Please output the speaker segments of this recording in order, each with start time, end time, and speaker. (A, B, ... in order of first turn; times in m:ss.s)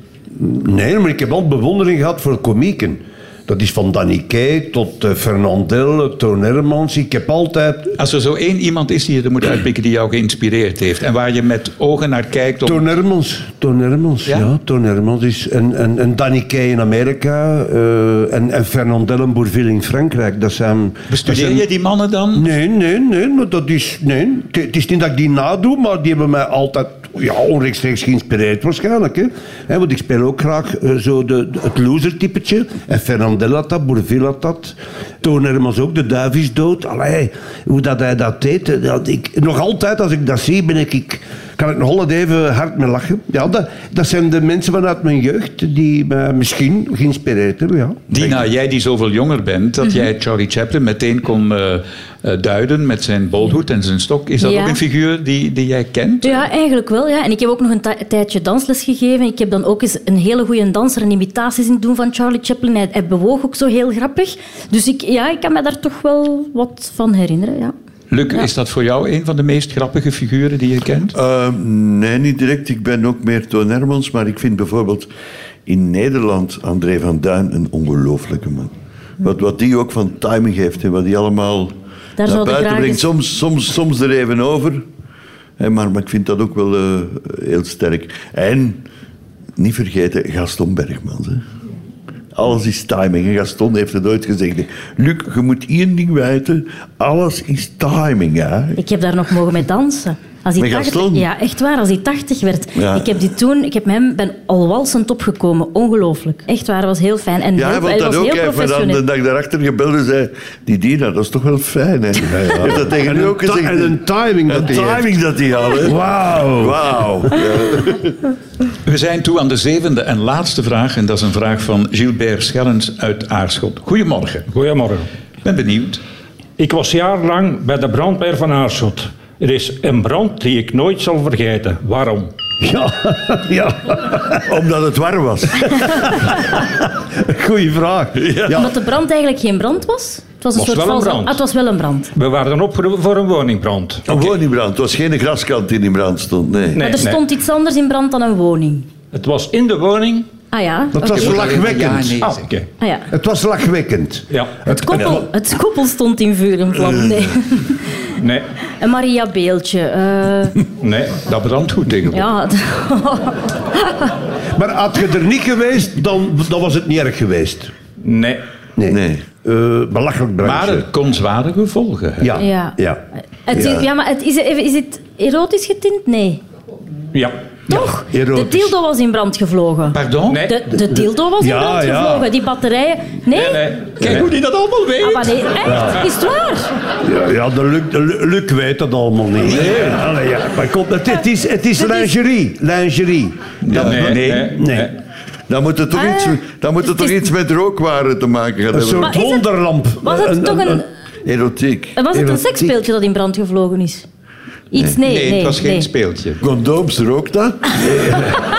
0:00.4-0:08.0 A
0:08.0-0:12.9 B
0:12.6-0:21.6 A
0:21.1-0:22.5 B
0:22.3-0:48.4 A
0:48.1-0:56.5 B
0:54.4-0:54.8 C
0:56.2-1:07.7 C
1:08.1-1:11.2 B
1:11.1-1:15.1 D
1:15.7-1:21.7 D
1:22.2-1:23.1 C
1:22.2-1:24.8 D
1:25.6-1:28.8 D
1:29.6-1:31.4 D
1:32.4-1:38.8 D
1:38.8-1:49.0 C
1:40.6-1:41.3 D
1:42.8-1:43.1 D
1:47.6-1:54.0 D
1:52.2-1:55.1 A
1:54.5-1:58.2 D
1:55.8-1:57.0 A
1:58.8-2:04.5 B
2:04.5-2:05.1 E
2:05.4-2:06.0 B
2:06.6-2:12.3 E
2:12.6-2:14.4 A
2:14.5-2:16.1 D
2:16.1-2:18.8 A
2:18.2-2:18.7 D
2:18.5-2:22.1 C
2:20.5-2:21.4 E
2:22.2-2:24.3 E
2:24.1-2:26.8 D
2:26.8-2:27.2 E
2:26.8-2:28.9 C
2:29.1-2:30.3 E
2:30.5-2:31.3 C
2:30.9-2:32.2 A
2:31.1-2:32.5 B
2:32.2-2:32.7 E
2:32.8-2:33.1 C
2:33.1-2:35.3 A
2:34.3-2:35.2 E
2:34.7-2:38.1 C
2:38.2-2:38.5 E
2:38.8-2:40.6 C
2:40.8-2:41.2 E
2:41.2-2:42.3 B
2:42.1-2:44.2 C
2:44.6-2:47.7 A
2:48.0-2:48.4 E
2:48.8-2:50.9 A
2:48.9-2:49.2 D
2:50.4-2:52.4 B
2:52.2-2:53.0 A
2:52.4-2:52.8 C
2:53.5-2:56.4 C
2:53.5-2:53.8 A
2:57.1-2:57.5 E
2:57.7-3:03.7 C
2:57.8-2:58.8 A
2:59.9-3:00.4 B
3:00.3-3:00.6 E
3:01.4-3:02.3 A
3:03.3-3:04.3 E
3:04.0-3:05.4 B
3:05.0-3:06.7 C
3:05.6-3:06.0 A
3:07.0-3:14.9 A
3:09.4-3:10.0 B
3:11.8-3:12.1 C
3:13.7-3:14.5 B
3:13.7-3:14.9 E
3:15.5-3:19.2 D
3:15.9-3:17.2 C
3:18.7-3:20.8 A
3:19.0-3:19.5 C
3:20.0-3:20.9 C
3:21.2-3:22.0 D
3:22.0-3:24.1 C
3:22.1-3:22.8 A
3:24.7-3:25.9 C
3:25.0-3:26.4 B
3:26.4-3:28.2 D